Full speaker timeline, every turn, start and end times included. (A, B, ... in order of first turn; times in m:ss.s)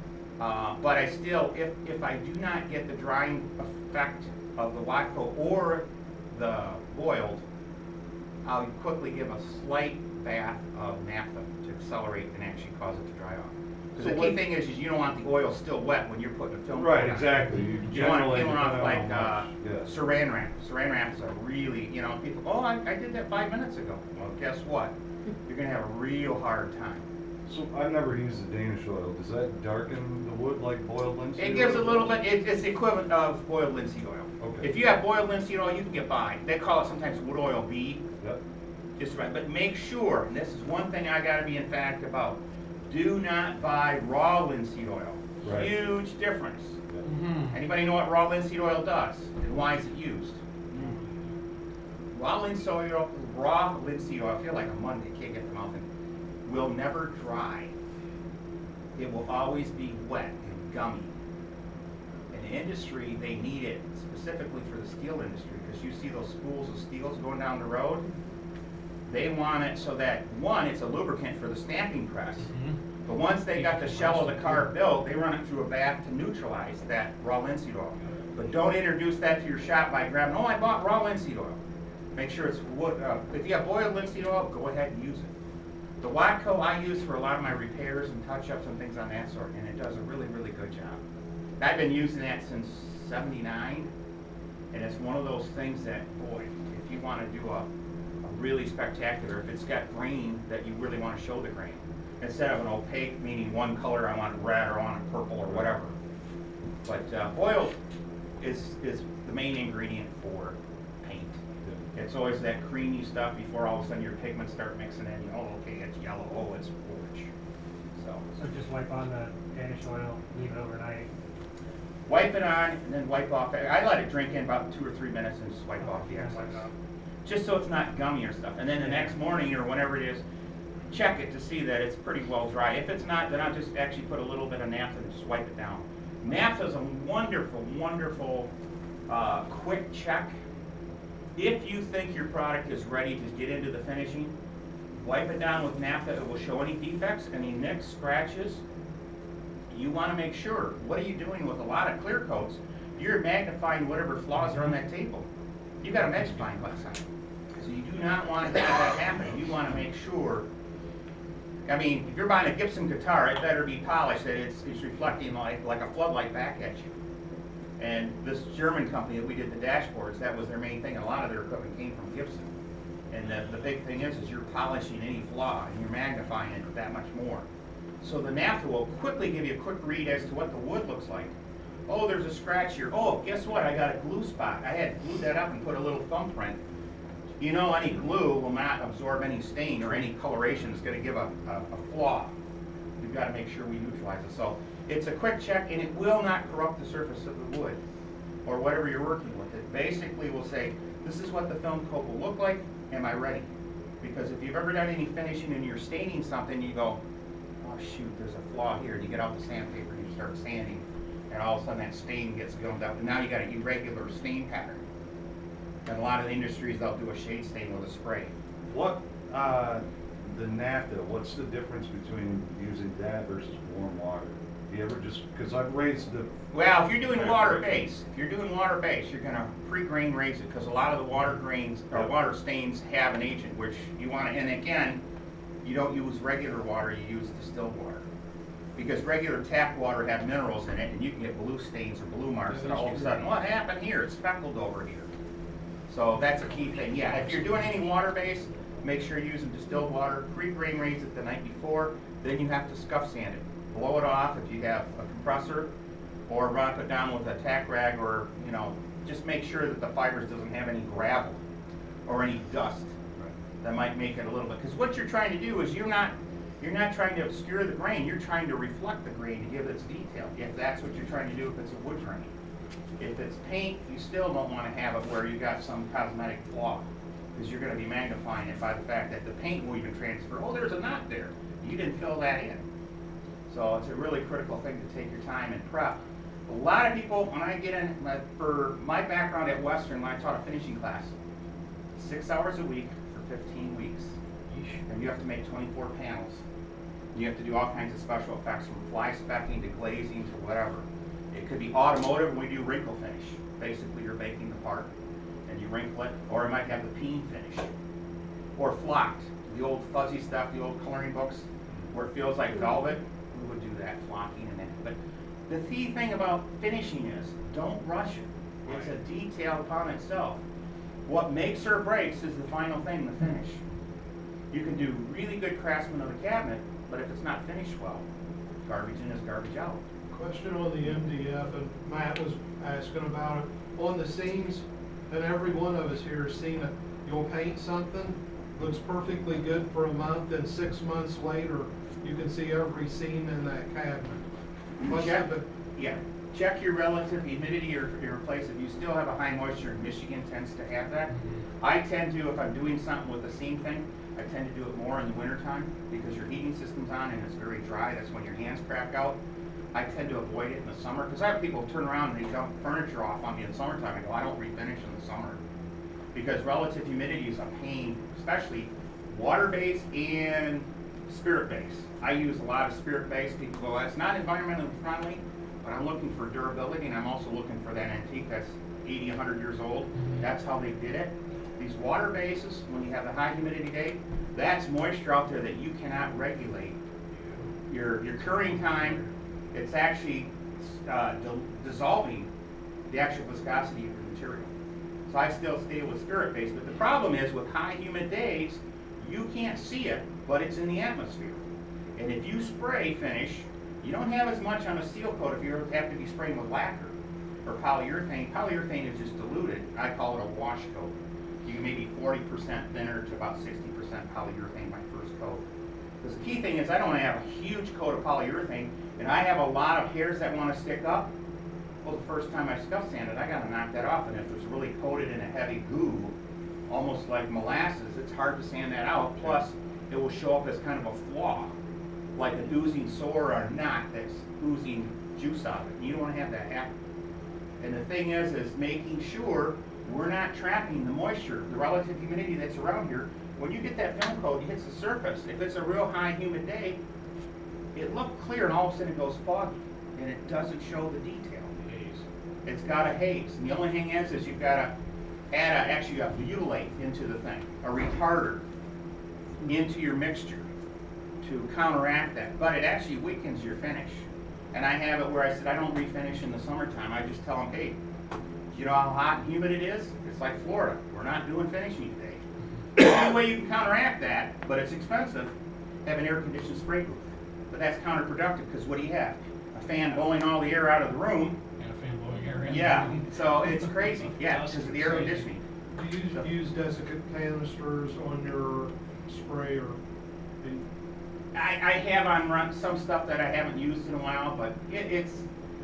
0:00.4-0:07.4 A
0:08.4-0:24.9 A
0:14.0-0:14.4 B
0:16.8-0:19.9 B
0:17.5-0:17.9 C
0:25.5-0:27.0 A
0:27.5-0:32.2 B
0:31.4-0:38.0 A
0:34.4-0:34.7 B
0:39.0-0:46.8 A
0:45.4-0:45.7 B
0:47.0-0:47.6 C
0:47.5-0:50.4 A
0:50.8-0:51.2 C
0:52.1-0:55.8 A
0:56.4-0:57.7 A
0:59.0-1:01.1 A
1:02.3-1:08.1 A
1:09.1-1:12.5 A
1:12.4-1:12.8 C
1:13.1-1:21.6 A
1:13.5-1:14.7 C
1:22.2-1:25.3 A
1:26.0-1:31.0 A
1:31.6-1:33.9 A
1:34.7-1:37.7 A
1:38.2-1:45.9 A
1:46.8-1:47.8 A
1:48.4-1:51.4 A
1:51.9-1:57.3 A
1:58.0-1:58.2 A
1:58.4-2:01.1 D
2:02.1-2:06.6 A
2:05.8-2:06.7 D
2:07.2-2:10.2 A
2:08.8-2:09.1 D
2:10.9-2:18.5 A
2:19.1-2:20.3 A
2:21.4-2:24.3 A
2:25.0-2:28.6 A
2:29.7-2:35.3 A
2:35.8-2:37.0 A
2:37.6-2:40.4 A
2:41.7-2:46.9 A
2:47.8-2:52.5 A
2:53.1-2:57.5 A
2:58.0-3:01.3 A
3:01.9-3:06.6 A
3:07.4-3:12.3 A
3:13.0-3:17.8 A
3:18.4-3:23.5 A
3:24.0-3:27.0 A
3:27.6-3:34.8 A
3:35.9-3:38.3 A
3:38.7-3:46.3 B
3:46.5-3:55.0 A
3:47.2-3:47.8 B
3:55.6-3:58.0 A
3:58.8-4:05.1 A
4:02.5-4:03.2 E
4:05.9-4:15.7 A
4:16.3-4:21.4 A
4:22.1-4:23.0 A
4:23.6-4:32.3 A
4:33.0-4:42.6 A
4:43.5-4:51.1 A
4:52.0-4:54.2 A
4:54.5-4:54.8 C
4:54.9-4:56.4 A
4:57.1-5:04.9 A
5:05.5-5:07.7 A
5:08.6-5:15.0 A
5:15.5-5:20.4 A
5:21.1-5:23.6 A
5:24.5-5:28.1 A
5:28.6-5:29.8 A
5:30.1-5:44.2 E
5:44.8-5:59.2 A
5:44.8-5:45.4 E
5:51.1-5:51.4 C
5:59.7-6:05.4 A
6:06.1-6:26.8 A
6:20.0-6:20.2 C
6:27.7-6:32.3 A
6:28.7-6:29.1 C
6:32.9-6:34.5 A
6:35.1-6:41.4 A
6:42.0-6:46.9 A
6:47.5-6:50.9 A
6:51.4-6:55.4 A
6:56.0-7:01.1 A
7:01.8-7:06.1 A
7:06.7-7:11.5 A
7:12.2-7:16.7 A
7:17.6-7:26.8 A
7:27.8-7:31.5 A
7:31.6-7:32.0 C
7:32.5-7:34.7 A
7:35.3-7:38.4 A
7:39.4-7:40.5 A
7:41.2-7:47.8 A
7:48.5-7:52.2 A
7:52.8-7:55.3 A
7:55.8-8:01.4 A
8:01.6-8:03.1 C
8:02.4-8:05.4 A
8:04.2-8:05.2 C
8:05.8-8:09.8 E
8:11.3-8:15.3 A